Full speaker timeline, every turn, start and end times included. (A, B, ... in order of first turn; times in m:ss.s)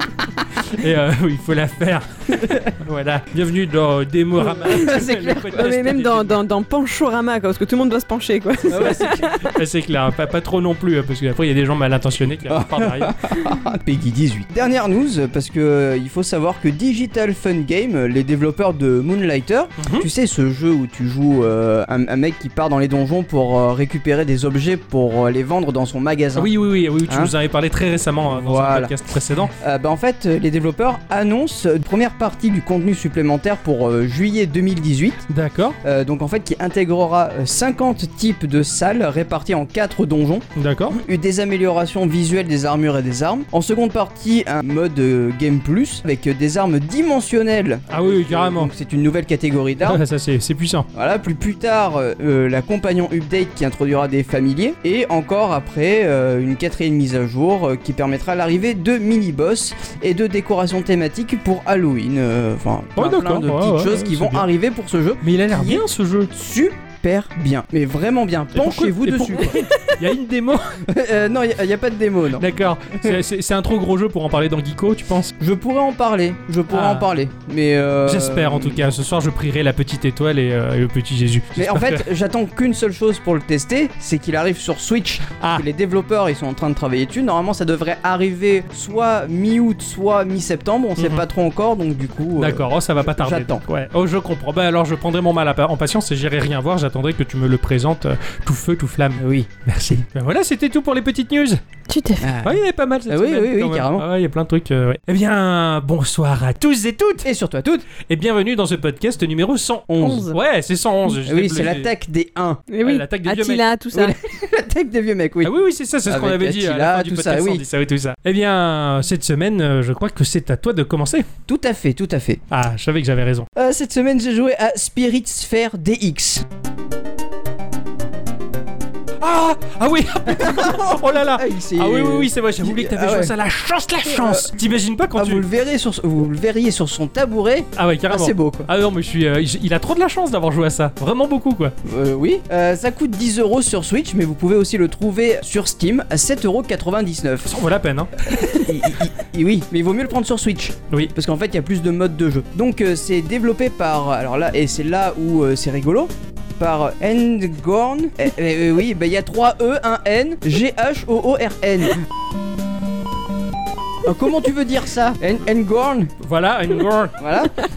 0:00.6-0:06.4 A
0:04.7-0:05.8 B
0:05.5-0:09.6 C
0:08.7-0:09.3 B
0:08.8-0:13.2 A
0:12.5-0:26.5 B
0:19.8-0:20.1 A
0:26.4-0:29.5 A
0:27.0-0:27.3 B
0:28.3-0:28.9 B
0:29.6-0:35.3 B
0:35.3-0:35.8 A
0:35.8-0:50.0 B
0:40.6-0:41.0 A
0:47.9-0:48.7 A
0:49.8-0:50.9 A
0:50.9-1:09.6 B
1:03.0-1:04.5 A
1:05.2-1:06.3 A
1:08.6-1:10.8 A
1:10.9-1:12.5 B
1:12.4-1:15.3 A
1:15.4-1:18.8 B
1:16.7-1:17.1 A
1:18.1-1:22.1 A
1:21.6-1:33.6 B
1:25.4-1:25.6 A
1:31.0-1:31.2 A
1:32.4-1:41.6 A
1:39.2-1:39.5 B
1:41.9-1:42.3 C
1:42.2-1:44.1 B
1:42.4-1:47.3 A
1:47.2-1:47.9 B
1:48.0-1:51.9 A
1:49.9-1:50.3 B
1:50.0-1:50.4 C
1:51.2-1:52.6 B
1:52.7-1:54.2 C
1:52.8-1:53.6 A
1:53.9-1:55.5 B
1:55.4-2:01.3 A
1:56.1-1:57.6 B
2:01.5-2:02.4 B
2:02.5-2:03.5 A
2:03.6-2:06.5 B
2:09.2-2:15.4 A
2:10.3-2:13.3 B
2:14.1-2:14.5 B
2:15.2-2:18.7 B
2:17.8-2:21.7 A
2:21.8-2:27.6 B
2:27.5-2:28.9 A
2:28.6-2:42.0 B
2:44.0-2:46.1 B
2:46.2-2:47.2 A
2:47.2-2:47.6 B